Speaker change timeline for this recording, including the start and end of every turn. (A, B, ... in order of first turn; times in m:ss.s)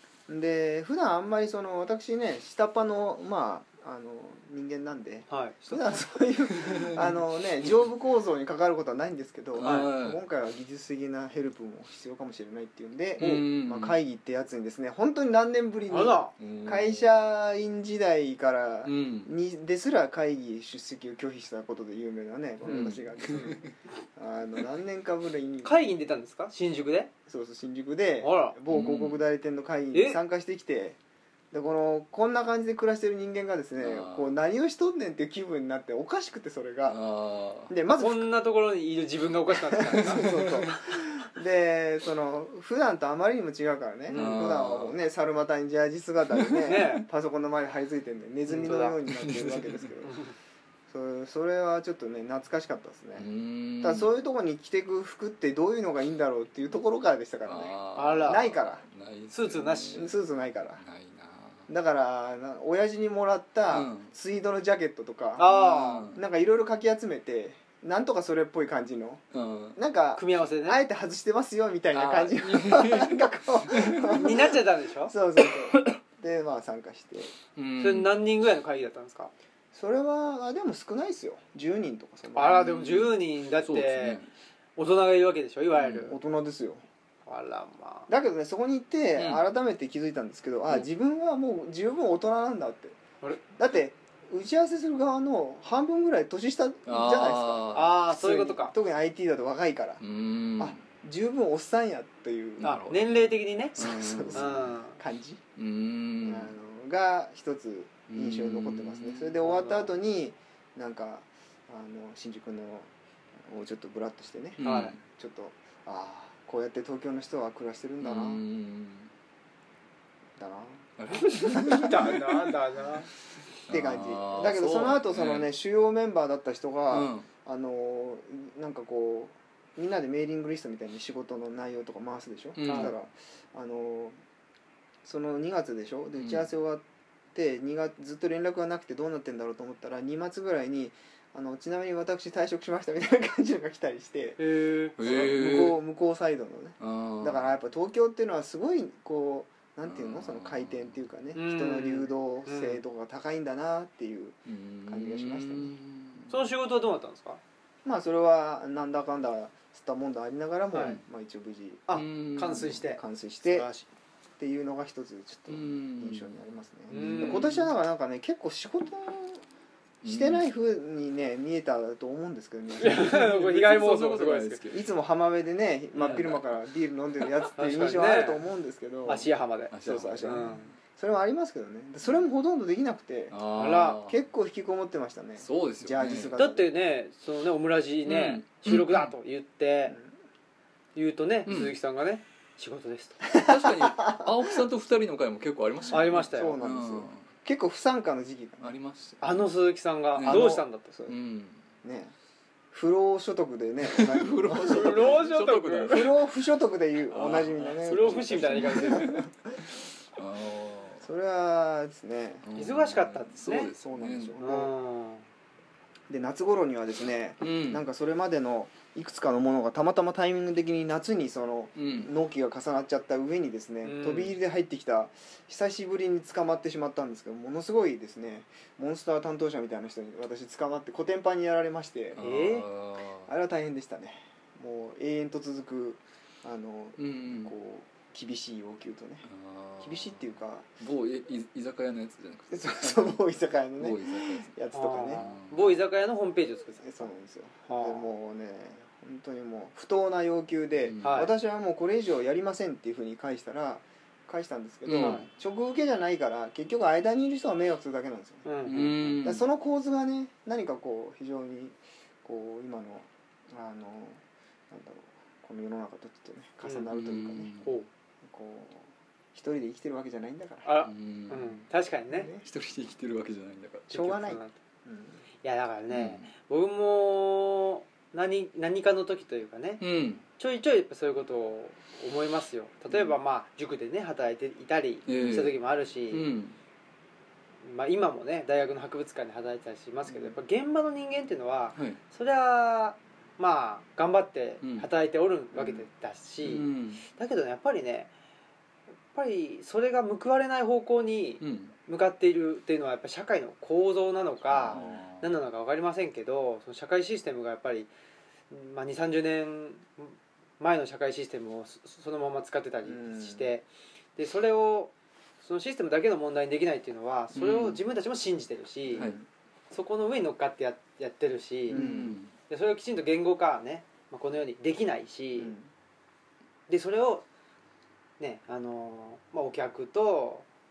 0:00.3-0:25.9 A
0:05.3-0:06.0 B
0:06.6-0:07.2 C
0:09.6-0:10.2 C
0:09.6-0:09.9 B
0:13.2-0:14.0 C
0:13.2-0:13.5 B
0:15.9-0:16.3 B
0:16.4-0:17.1 C
0:18.8-0:19.3 C
0:22.7-0:23.7 C
0:25.6-0:27.1 B
0:27.3-0:31.0 A
0:28.2-0:28.6 B
0:28.7-0:29.2 C
0:29.9-0:30.2 B
0:31.5-0:37.0 A
0:33.8-0:34.3 C
0:36.9-0:37.7 C
0:37.7-0:38.3 A
0:38.0-0:40.5 B
0:39.7-0:50.2 A
0:40.0-0:40.8 C
0:44.1-0:44.5 B
0:44.1-0:45.0 C
0:46.4-0:46.9 C
0:46.6-0:47.1 B
0:48.5-0:49.0 B
0:49.0-0:50.0 C
0:50.9-0:53.3 A
0:53.2-0:54.1 C
0:53.8-0:58.8 A
0:57.5-1:00.1 C
0:58.0-0:58.5 B
0:59.3-1:00.1 B
0:59.9-1:00.8 A
1:00.8-1:01.7 C
1:01.7-1:05.5 A
1:03.7-1:04.1 C
1:05.4-1:06.2 B
1:05.5-1:06.2 C
1:06.1-1:09.2 A
1:09.3-1:09.8 C
1:09.8-1:17.3 A
1:10.2-1:10.8 B
1:11.9-1:14.3 C
1:14.1-1:15.1 B
1:17.6-1:18.1 C
1:17.8-1:19.3 B
1:19.7-1:23.0 A
1:22.4-1:24.2 B
1:22.6-1:24.3 C
1:24.8-1:26.2 B
1:25.8-1:26.1 C
1:26.1-1:26.8 A
1:27.3-1:28.1 B
1:28.1-1:33.0 A
1:29.2-1:29.4 C
1:33.6-1:40.0 A
1:36.9-1:38.0 C
1:37.7-1:38.7 B
1:40.0-1:40.8 C
1:40.6-1:42.8 A
1:42.6-1:44.8 C
1:42.6-1:45.0 B
1:43.8-1:45.4 A
1:45.6-1:46.5 C
1:46.2-1:52.9 A
1:48.1-1:49.4 C
1:49.4-1:49.9 B
1:53.4-1:58.4 A
1:54.6-1:55.0 C
1:54.6-1:55.0 B
1:58.0-1:59.1 C
2:00.4-2:00.9 A
2:01.0-2:02.5 C
2:01.1-2:03.1 B
2:01.6-2:02.0 A
2:03.7-2:05.5 C
2:03.7-2:14.2 A
2:06.9-2:07.3 C
2:12.6-2:13.0 C
2:12.6-2:12.9 B
2:15.0-2:24.4 A
2:16.2-2:16.5 C
2:24.4-2:25.0 B
2:25.0-2:25.8 C
2:25.0-2:35.7 A
2:26.8-2:27.4 C
2:29.8-2:31.0 C
2:31.4-2:32.8 B
2:34.5-2:36.4 C
2:36.3-2:37.4 B
2:37.8-2:41.9 A
2:41.9-2:43.9 B
2:41.9-2:42.8 C
2:42.9-2:43.7 A
2:44.4-2:49.4 A
2:45.5-2:46.3 C
2:46.9-2:47.7 B
2:46.9-2:47.6 C
2:50.0-2:50.5 C
2:50.0-2:53.2 A
2:52.8-2:54.6 B
2:52.8-2:54.9 C
2:54.7-2:59.3 A
2:56.0-2:56.3 B
2:56.0-2:56.4 C
2:57.5-2:58.4 B
2:59.1-3:00.6 B
2:59.7-3:00.8 C
2:59.8-3:06.6 A
3:03.3-3:04.2 C
3:03.6-3:04.0 B
3:05.4-3:06.4 C
3:06.4-3:10.0 B
3:08.1-3:09.1 C
3:11.0-3:13.2 B
3:11.5-3:11.8 C
3:13.3-3:17.2 C
3:13.3-3:14.4 A
3:15.9-3:18.8 A
3:15.9-3:16.6 B
3:18.6-3:19.5 C
3:19.2-3:20.9 B
3:20.1-3:20.4 C
3:20.3-3:21.2 A
3:21.1-3:21.6 C
3:21.8-3:22.1 A
3:22.7-3:25.2 A
3:23.9-3:26.2 C
3:24.6-3:26.1 B
3:25.9-3:29.3 A
3:27.1-3:29.3 C
3:27.8-3:29.2 B
3:30.1-3:31.0 C
3:31.0-3:32.4 A
3:32.4-3:34.4 C
3:32.6-3:33.7 B
3:33.8-3:34.7 A
3:34.4-3:35.2 B
3:36.1-3:52.2 A
3:37.4-3:37.8 C
3:41.8-3:42.1 C
3:43.8-3:44.4 B
3:52.2-3:53.3 C
3:52.2-3:52.7 B
3:53.3-3:59.2 A
3:57.0-3:57.5 C
3:59.3-4:04.6 C
3:59.8-4:00.7 A
4:02.5-4:05.2 A
4:04.7-4:06.9 B
4:05.1-4:05.8 C
4:06.8-4:27.5 A
4:07.7-4:08.1 B
4:10.9-4:11.3 C
4:11.0-4:11.3 B
4:14.9-4:15.2 C
4:14.9-4:15.3 B
4:18.5-4:19.2 B
4:18.6-4:19.5 C
4:26.9-4:27.8 C
4:27.6-4:27.9 B
4:28.2-4:30.7 A
4:30.6-4:32.3 B
4:30.8-4:31.6 C
4:32.1-4:32.4 A
4:32.4-4:34.1 C
4:33.9-4:34.6 B
4:33.9-4:35.2 A
4:35.4-4:39.8 B
4:35.9-4:36.3 C
4:39.8-4:40.2 C
4:40.4-4:46.3 B
4:45.1-4:45.6 C
4:46.1-4:46.6 C
4:47.6-4:58.1 B
4:54.6-4:54.9 C
4:55.6-4:55.8 C
4:56.4-4:57.0 C
4:59.1-5:07.9 B
5:01.4-5:01.7 C
5:04.5-5:05.3 C
5:04.7-5:05.0 A
5:08.5-5:19.1 B
5:12.8-5:13.5 A
5:17.3-5:17.8 C
5:18.9-5:19.2 A
5:19.7-5:21.8 B
5:21.7-5:22.2 A
5:21.7-5:22.3 C
5:22.5-5:25.5 B
5:25.4-5:25.7 A
5:26.7-5:27.2 B
5:28.2-5:30.5 B